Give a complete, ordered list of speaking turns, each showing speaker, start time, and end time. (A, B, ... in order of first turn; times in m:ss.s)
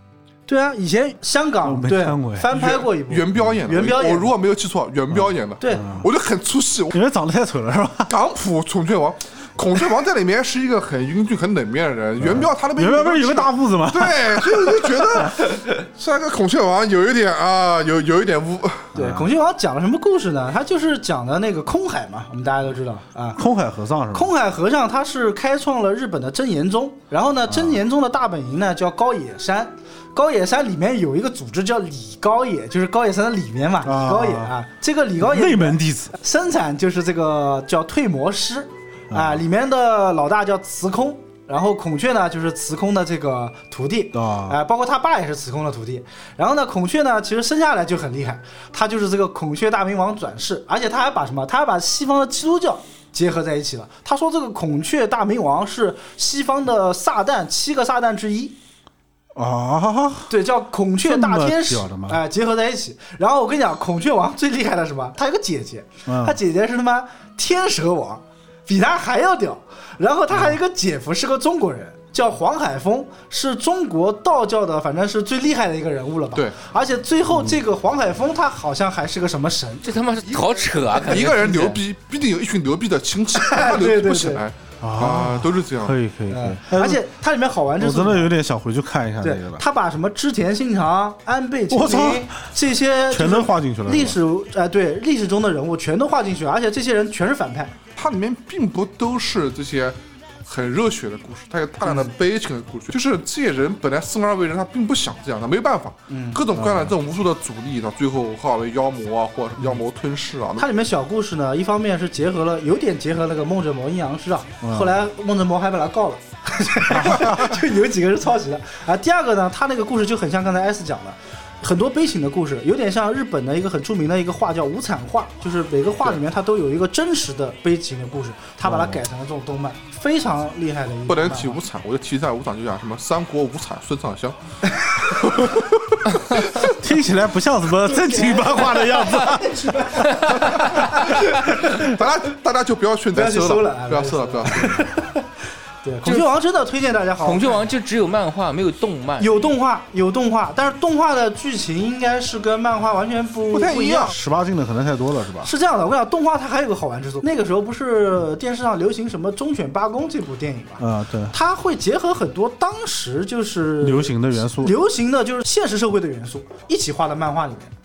0:00.5-0:04.3 A
0:01.6-0:02.5 B
0:02.5-0:07.0 C
0:05.1-0:06.1 B
0:05.6-0:05.9 A
0:06.9-0:08.1 B
0:08.1-0:18.9 C
0:12.2-0:15.2 B
0:18.9-0:19.3 B
0:18.9-0:23.4 A
0:23.4-0:24.3 B
0:24.1-0:58.6 A
0:27.5-0:27.8 B
0:33.8-0:34.5 B
0:35.2-0:36.2 B
0:39.1-0:39.4 B
0:44.1-0:44.6 B
0:59.3-1:00.3 B
1:00.3-1:19.9 A
1:01.0-1:02.2 B
1:06.0-1:06.4 B
1:17.3-1:17.6 B
1:19.8-1:21.8 D
1:20.3-1:26.0 C
1:23.3-1:24.4 A
1:24.8-1:27.0 B
1:26.3-1:28.3 A
1:27.8-1:29.6 B
1:29.2-1:37.8 A
1:31.7-1:32.4 B
1:33.1-1:34.2 B
1:38.0-1:50.7 C
1:41.8-1:42.1 A
1:46.1-1:46.4 A
1:46.5-1:46.9 B
1:50.6-2:11.6 A
1:54.6-1:54.9 B
1:56.9-1:57.6 B
2:08.6-2:09.0 B
2:11.1-2:14.4 C
2:14.7-2:15.3 A
2:15.0-2:16.5 C
2:16.6-2:21.0 B
2:17.8-2:21.9 A
2:21.4-2:24.9 C
2:23.1-2:25.3 A
2:25.8-2:27.7 A
2:27.2-2:29.5 D
2:29.2-2:34.2 A
2:33.5-2:34.2 C
2:34.0-2:35.5 B
2:35.4-2:47.7 A
2:40.8-2:41.3 B
2:43.8-2:44.7 B